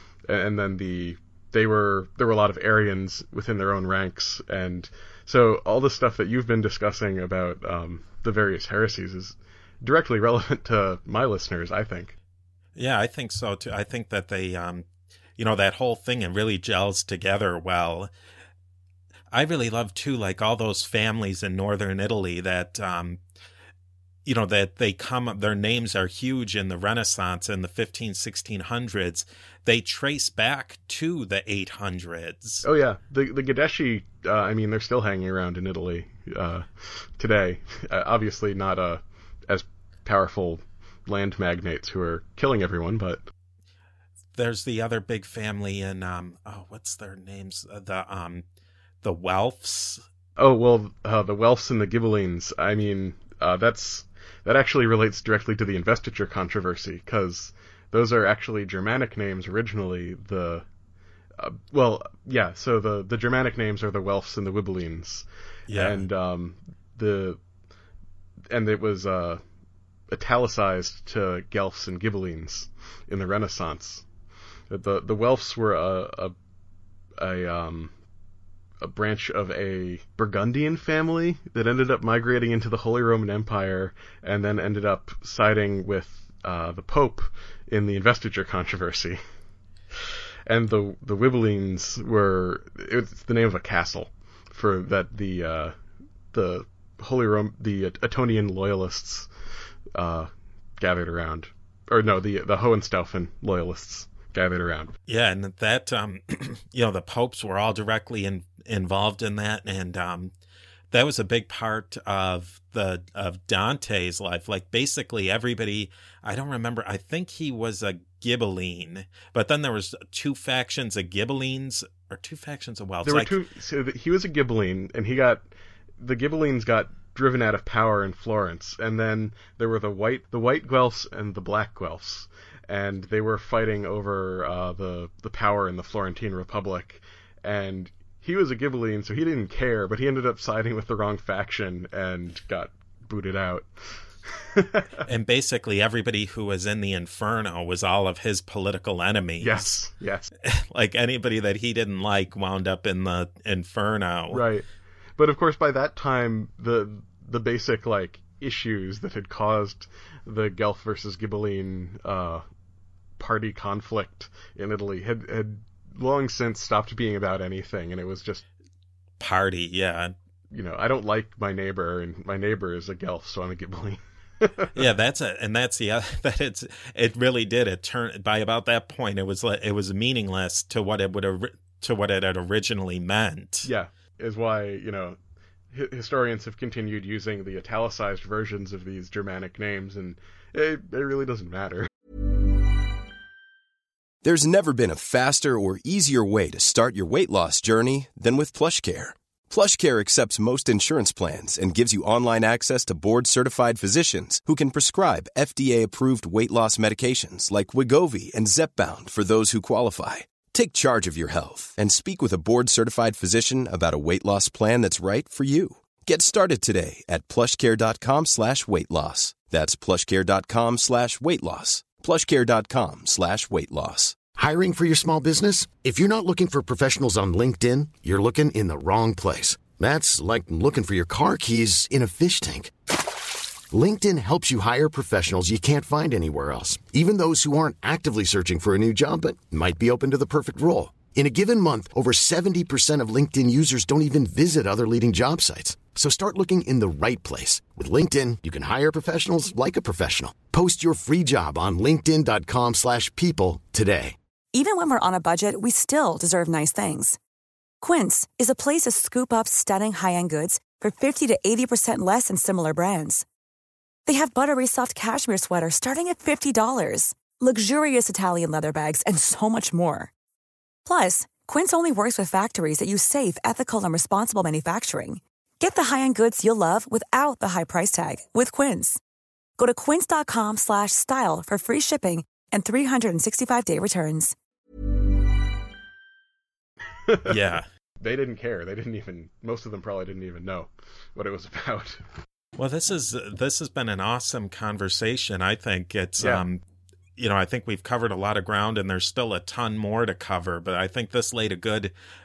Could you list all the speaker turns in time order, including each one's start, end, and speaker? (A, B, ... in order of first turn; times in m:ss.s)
0:00.3-0:12.1 A
0:12.8-0:14.8 B
0:15.4-0:18.1 B
0:19.3-0:23.2 B
0:24.2-0:32.6 B
0:32.6-0:43.3 A
0:44.3-0:48.4 B
0:49.0-0:50.0 B
0:50.4-1:00.6 A
1:01.4-1:07.4 A
1:05.7-1:06.0 B
1:08.5-1:09.4 A
1:10.1-1:14.0 A
1:14.7-1:16.3 A
1:17.2-1:17.9 A
1:18.8-1:29.2 A
1:30.4-1:35.8 A
1:36.3-1:39.3 A
1:39.9-1:44.9 A
1:45.1-1:50.3 B
1:50.9-2:03.3 B
2:03.0-2:05.4 A
2:06.0-2:23.7 A
2:24.2-2:25.0 A
2:25.0-2:29.8 B
2:29.4-2:30.3 A
2:30.4-2:34.4 B
2:34.3-2:34.6 A
2:35.2-2:42.4 A
2:43.2-2:48.4 A
2:49.2-2:50.1 B
2:50.5-2:54.8 A
2:54.7-3:03.7 B
3:03.6-3:05.2 A
3:05.7-3:11.9 A
3:14.2-3:44.2 C
3:44.4-3:52.7 D
3:53.7-4:14.2 D
4:14.5-4:17.2 E
4:17.8-4:23.2 E
4:24.0-4:30.1 E
4:30.8-4:39.0 E
4:39.6-4:44.3 E
4:47.0-4:47.3 A
4:47.2-4:47.6 B
4:48.0-4:52.0 A
4:52.6-4:56.6 B
4:57.2-5:01.9 B